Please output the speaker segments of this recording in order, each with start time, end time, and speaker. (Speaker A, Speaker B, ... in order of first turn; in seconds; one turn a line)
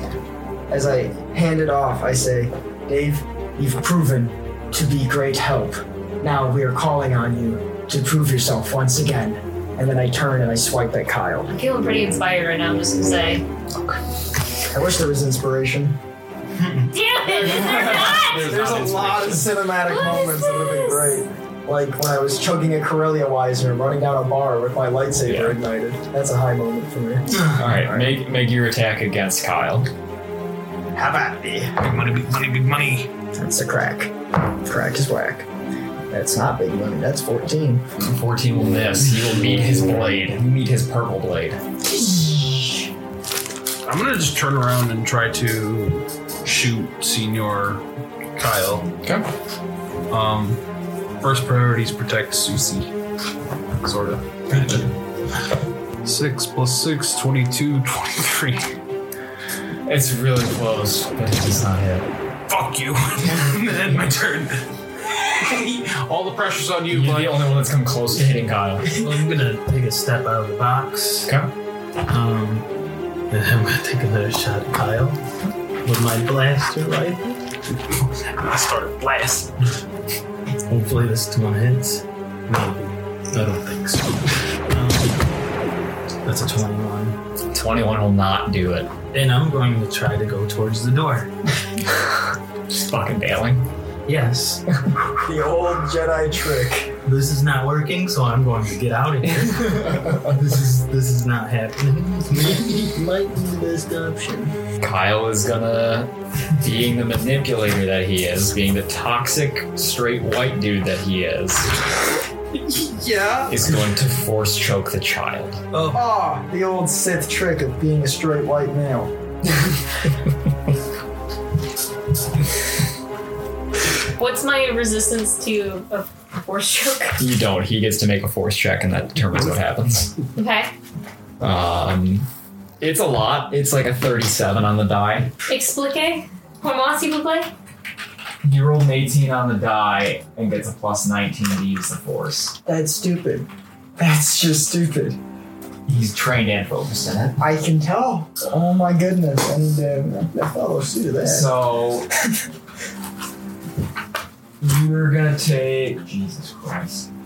Speaker A: 0.7-11.5
Speaker B: 11.5-13.4
Speaker A: 14.7-16.0
Speaker B: 16.9-18.4
Speaker A: 17.2-28.1
Speaker C: 17.4-19.6
Speaker B: 19.9-21.2
Speaker C: 25.2-25.6
Speaker C: 27.5-29.9
Speaker D: 31.1-33.1
Speaker A: 33.3-35.5
Speaker A: 36.1-37.8
Speaker C: 38.0-41.6
Speaker D: 43.8-47.8
Speaker D: 48.4-49.2
Speaker D: 50.1-50.6
Speaker D: 51.2-52.9
Speaker D: 53.8-54.9
Speaker D: 56.0-58.6
Speaker C: 59.9-62.1
Speaker D: 62.5-67.5
Speaker C: 66.9-68.9
Speaker E: 68.9-71.3
Speaker C: 71.2-71.5
Speaker E: 72.0-72.7
Speaker E: 73.3-75.2
Speaker E: 75.8-77.2
Speaker D: 78.4-79.5
Speaker E: 80.7-85.2
Speaker E: 86.2-87.2
Speaker C: 87.5-88.9
Speaker E: 89.1-91.3
Speaker C: 92.7-93.6
Speaker E: 94.0-94.6
Speaker A: 95.2-96.9
Speaker E: 97.0-103.0
Speaker C: 99.8-100.2
Speaker A: 102.5-104.5
Speaker C: 104.8-111.7
Speaker D: 112.7-113.4
Speaker C: 113.5-115.6
Speaker A: 115.9-119.1
Speaker B: 124.2-127.2
Speaker C: 127.2-130.1
Speaker B: 130.3-130.7
Speaker C: 131.4-132.3
Speaker C: 132.8-135.3
Speaker B: 135.5-137.5
Speaker C: 138.4-142.6
Speaker A: 142.7-145.2
Speaker C: 145.9-147.4
Speaker A: 147.4-151.5
Speaker C: 151.2-152.1
Speaker C: 154.6-157.1